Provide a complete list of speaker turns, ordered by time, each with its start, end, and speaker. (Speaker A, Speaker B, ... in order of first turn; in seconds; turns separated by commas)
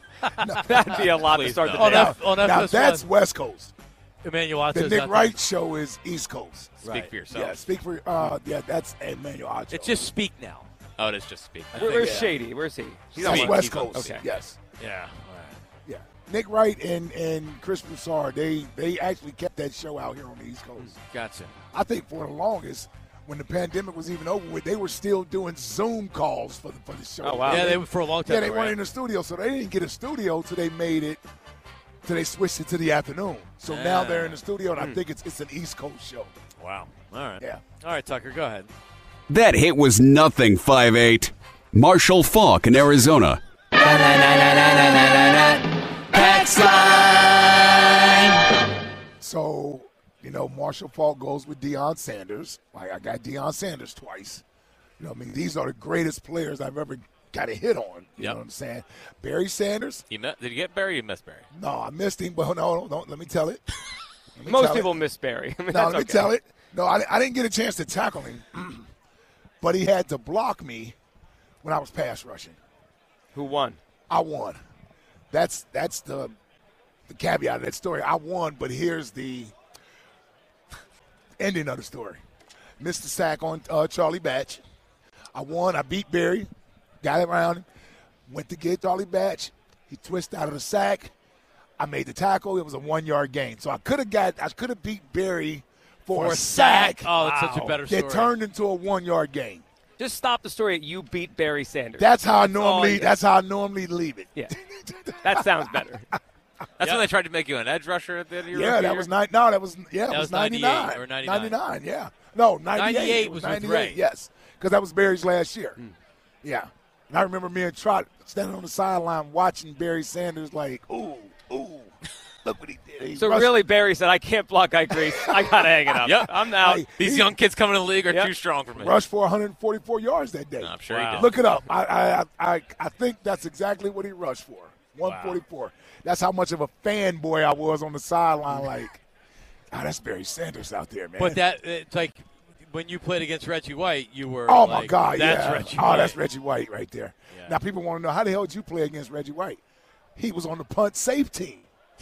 Speaker A: 0.2-0.6, Speaker B: 0.4-1.0, Speaker C: 0.7-2.1, Speaker D: 0.9-2.0, Speaker A: 1.8-3.1, Speaker B: 1.8-3.7, Speaker A: 4.2-5.4, Speaker B: 4.7-6.7, Speaker A: 6.8-7.1, Speaker D: 6.8-7.6, Speaker B: 7.3-10.0, Speaker A: 9.7-10.7, Speaker D: 11.0-12.2, Speaker A: 11.7-12.2, Speaker C: 11.7-14.2, Speaker B: 11.8-12.3, Speaker B: 13.2-14.6, Speaker D: 13.2-14.1, Speaker A: 14.8-15.6, Speaker B: 15.8-21.0, Speaker A: 21.0-21.5, Speaker B: 21.7-31.2, Speaker C: 27.2-27.7, Speaker A: 27.5-28.8, Speaker B: 32.0-36.3, Speaker A: 33.6-34.4, Speaker A: 36.6-38.7, Speaker E: 39.3-43.4, Speaker A: 43.8-45.6, Speaker A: 46.1-47.6, Speaker B: 49.2-54.4, Speaker B: 55.0-60.0, Speaker D: 60.1-61.4, Speaker B: 61.5-63.6, Speaker B: 64.3-65.0, Speaker C: 64.4-66.3, Speaker B: 65.7-68.9, Speaker B: 69.6-70.9, Speaker B: 71.6-72.6, Speaker C: 73.3-73.8, Speaker B: 74.1-74.6, Speaker B: 75.3-76.3, Speaker B: 77.1-79.5, Speaker B: 81.4-82.2, Speaker B: 82.8-84.6, Speaker B: 85.3-86.5, Speaker B: 87.0-87.6, Speaker B: 88.3-91.1, Speaker B: 91.8-99.6, Speaker A: 96.1-98.3, Speaker C: 97.2-97.7, Speaker C: 100.0-103.1, Speaker B: 102.0-105.8, Speaker C: 105.2-106.0, Speaker D: 106.8-109.1, Speaker A: 106.8-107.0, Speaker B: 108.5-115.8, Speaker A: 110.1-111.6, Speaker A: 112.7-114.0, Speaker B: 116.4-121.9, Speaker B: 122.4-123.6, Speaker C: 123.2-126.8, Speaker B: 124.9-127.3, Speaker D: 126.0-129.0, Speaker B: 128.8-139.0, Speaker D: 130.6-131.3, Speaker A: 130.9-131.3, Speaker D: 135.0-135.3, Speaker B: 139.7-141.4, Speaker A: 141.2-146.2, Speaker B: 144.5-149.6, Speaker B: 150.2-151.7